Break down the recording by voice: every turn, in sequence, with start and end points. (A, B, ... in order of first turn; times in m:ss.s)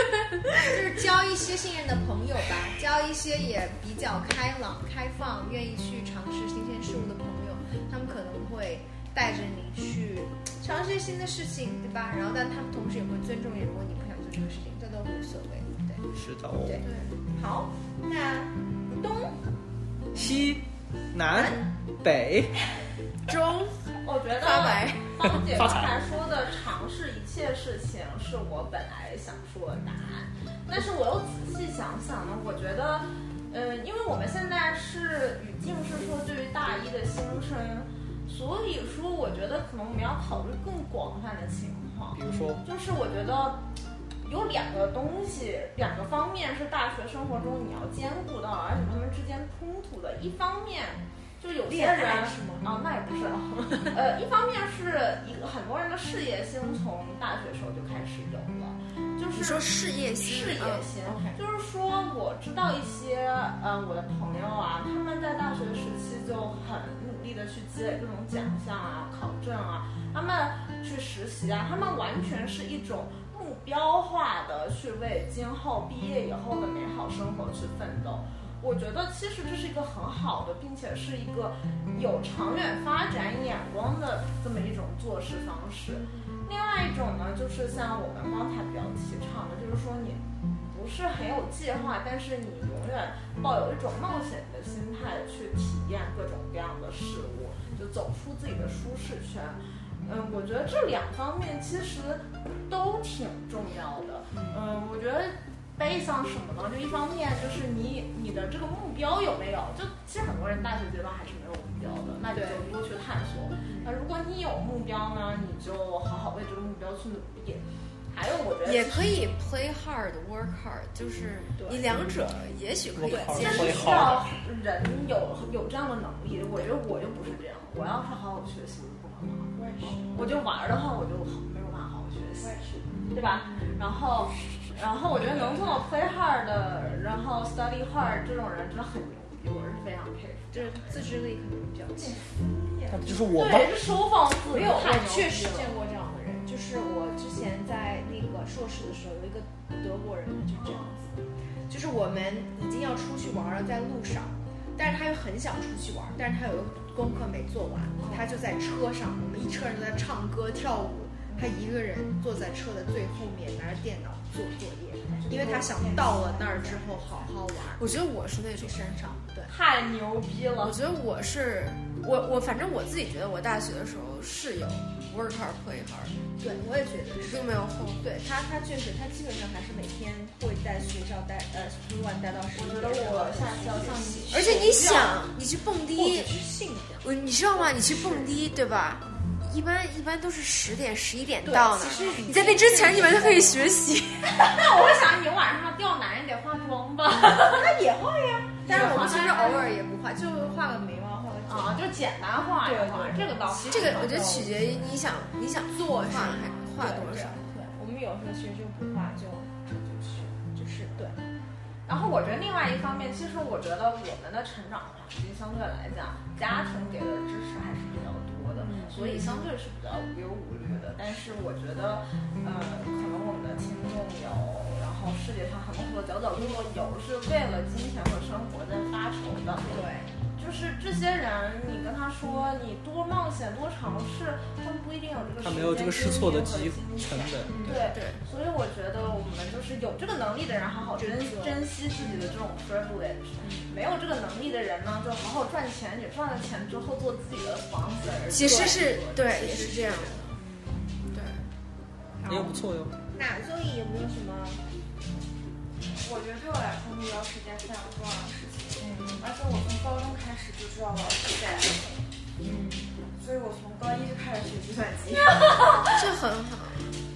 0:00.5-0:16.1 A
0:16.1-0:16.8 B
0:16.7-0:19.4 A
0:16.8-0:17.1 C
0:20.1-0:22.6 B
0:21.3-0:21.7 A
0:23.3-0:25.3 C
0:24.0-0:43.6 D
0:25.5-0:25.9 B
0:42.1-0:42.6 B
0:44.2-1:59.3 D
0:51.7-0:52.7 A
0:53.7-0:54.0 A
0:59.3-1:00.9 C
1:01.0-1:01.4 A
1:44.3-1:44.6 A
1:52.3-1:52.8 A
1:53.7-1:54.0 A
1:58.6-2:04.1 C
2:01.6-2:01.9 A
2:02.9-2:04.4 B
2:03.2-2:21.0 D
2:09.6-2:10.2 E
2:12.4-2:13.0 E
2:12.9-2:13.7 A
2:15.2-2:15.8 E
2:20.5-2:22.3 A
2:22.0-2:23.3 E
2:22.9-2:23.8 B
2:23.3-2:25.8 D
2:24.5-2:30.9 A
2:30.6-2:31.0 D
2:31.7-2:48.0 A
2:38.0-2:38.3 E
2:45.1-2:47.3 E
2:47.8-2:48.8 C
2:48.6-2:49.5 A
2:49.5-2:50.8 D
2:50.6-2:56.1 C
2:56.4-3:05.1 A
2:57.2-2:58.0 C
3:02.6-3:05.2 D
3:03.1-3:03.3 E
3:04.3-3:06.4 C
3:05.9-3:08.4 A
3:07.0-3:14.3 C
3:11.4-3:13.6 A
3:11.8-3:12.8 D
3:14.3-3:17.8 D
3:17.5-3:21.8 A
3:18.6-3:19.7 D
3:21.5-3:24.8 D
3:22.6-3:24.5 A
3:23.7-3:27.4 C
3:25.7-3:31.2 A
3:31.9-3:49.8 D
3:38.6-3:39.5 A
3:49.6-3:50.1 A
3:50.4-4:09.9 D
3:55.4-3:57.7 B
3:57.4-3:57.9 A
3:57.7-3:58.2 C
4:01.0-4:01.6 A
4:03.4-4:03.7 A
4:08.3-4:10.3 C
4:09.4-4:10.6 A
4:11.1-4:11.4 C
4:12.2-4:12.6 A
4:12.3-4:13.0 B
4:13.1-4:14.6 A
4:16.0-4:21.9 E
4:18.8-4:19.2 A
4:22.4-4:22.8 A
4:23.2-4:26.1 E
4:25.8-4:26.8 C